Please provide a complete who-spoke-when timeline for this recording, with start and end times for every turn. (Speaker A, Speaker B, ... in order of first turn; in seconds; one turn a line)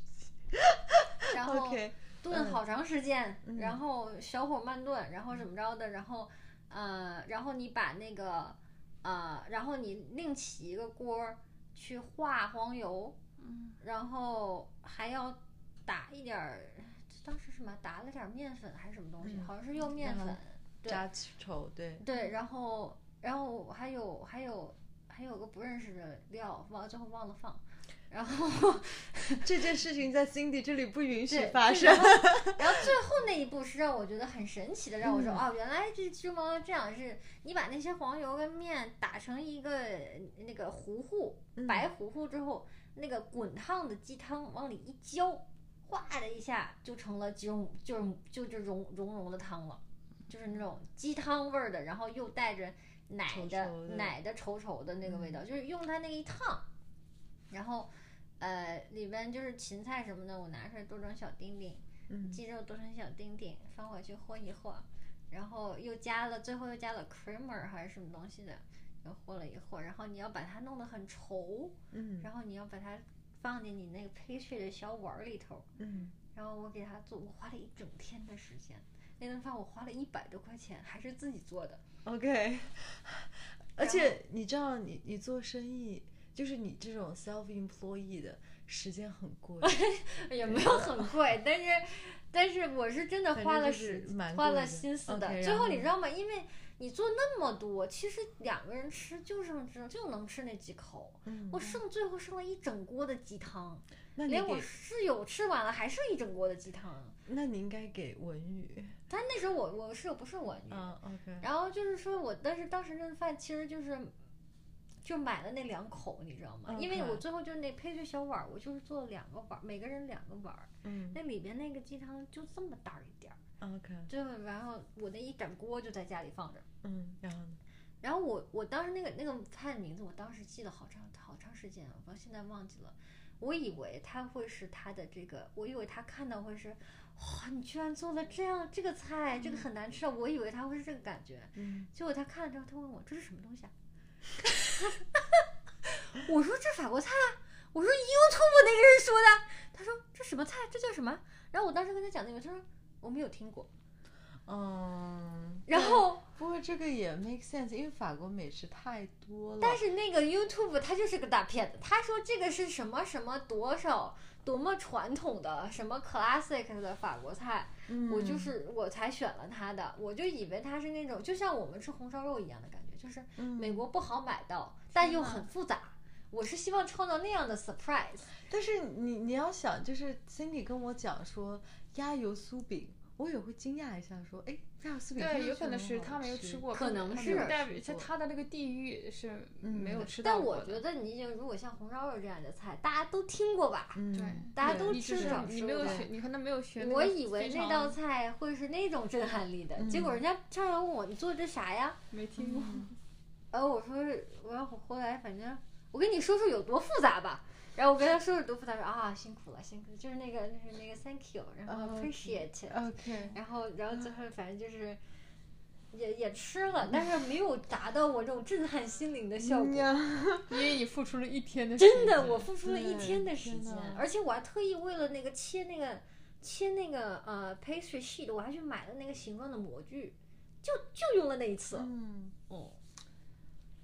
Speaker A: 0.5-2.6
Speaker B: 1.3-13.2
Speaker A: 3.4-3.8
Speaker C: 13.4-13.8
Speaker B: 13.8-21.0
Speaker A: 19.2-22.0
Speaker B: 22.0-29.7
Speaker A: 29.4-32.9
Speaker B: 31.3-56.7
Speaker A: 35.0-35.4
Speaker A: 41.5-41.9
Speaker A: 53.3-54.1
Speaker A: 55.1-55.4
Speaker B: 57.5-75.7
Speaker A: 62.1-62.4
Speaker A: 71.9-72.3
Speaker A: 75.8-76.2
Speaker B: 76.3-81.8
Speaker A: 82.0-89.8
Speaker B: 83.8-84.2
Speaker B: 89.6-107.2
Speaker A: 90.4-91.1
Speaker A: 93.3-95.9
Speaker A: 101.2-101.7
Speaker A: 104.1-104.7
Speaker A: 107.3-109.0
Speaker B: 109.1-114.1
Speaker A: 110.7-111.5
Speaker B: 115.0-123.4
Speaker A: 116.7-117.2
Speaker A: 120.8-121.2
Speaker A: 123.6-124.1
Speaker B: 124.1-126.7
Speaker A: 126.8-127.6
Speaker B: 128.0-143.7
Speaker A: 141.6-141.9
Speaker B: 144.4-153.7
Speaker A: 154.4-159.8
Speaker B: 155.7-156.2
Speaker B: 159.6-178.3
Speaker A: 167.9-168.6
Speaker A: 173.4-173.8
Speaker A: 175.1-175.4
Speaker A: 178.5-188.1
Speaker C: 185.2-190.8
Speaker B: 186.7-187.6
Speaker A: 189.6-190.1
Speaker B: 190.2-196.1
Speaker A: 193.9-196.1
Speaker C: 194.1-198.0
Speaker B: 196.8-202.0
Speaker A: 199.8-200.2
Speaker C: 202.1-202.9
Speaker A: 202.4-202.9
Speaker B: 203.5-215.0
Speaker A: 211.7-213.4
Speaker B: 215.9-219.9
Speaker A: 219.4-220.8
Speaker C: 220.5-222.5
Speaker B: 221.8-231.9
Speaker A: 222.6-224.1
Speaker A: 231.7-232.3
Speaker B: 232.5-232.8